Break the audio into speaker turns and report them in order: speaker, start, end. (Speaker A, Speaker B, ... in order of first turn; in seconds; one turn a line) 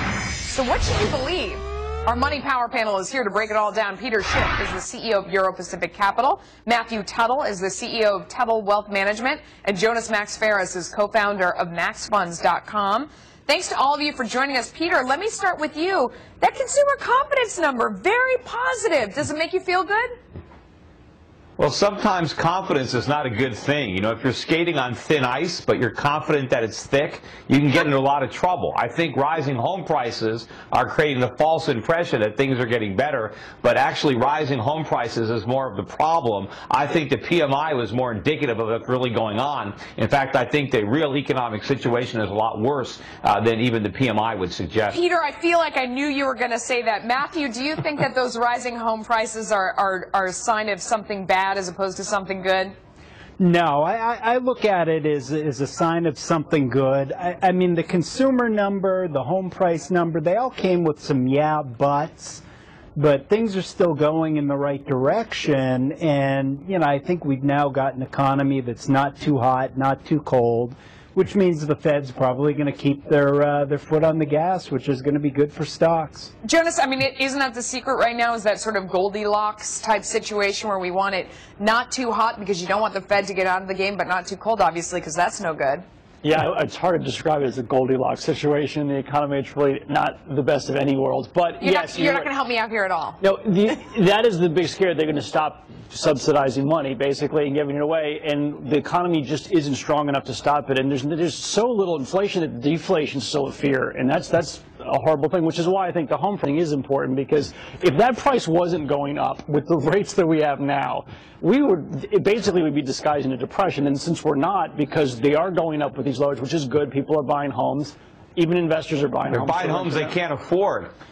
Speaker A: 0.4-20.1
Speaker B: 21.6-45.0
Speaker A: 44.9-52.7
Speaker C: 53.4-62.4
Speaker C: 63.0-76.3
Speaker A: 76.4-85.8
Speaker D: 86.2-92.3
Speaker A: 91.6-93.2
Speaker D: 93.2-120.2
Speaker B: 119.3-120.9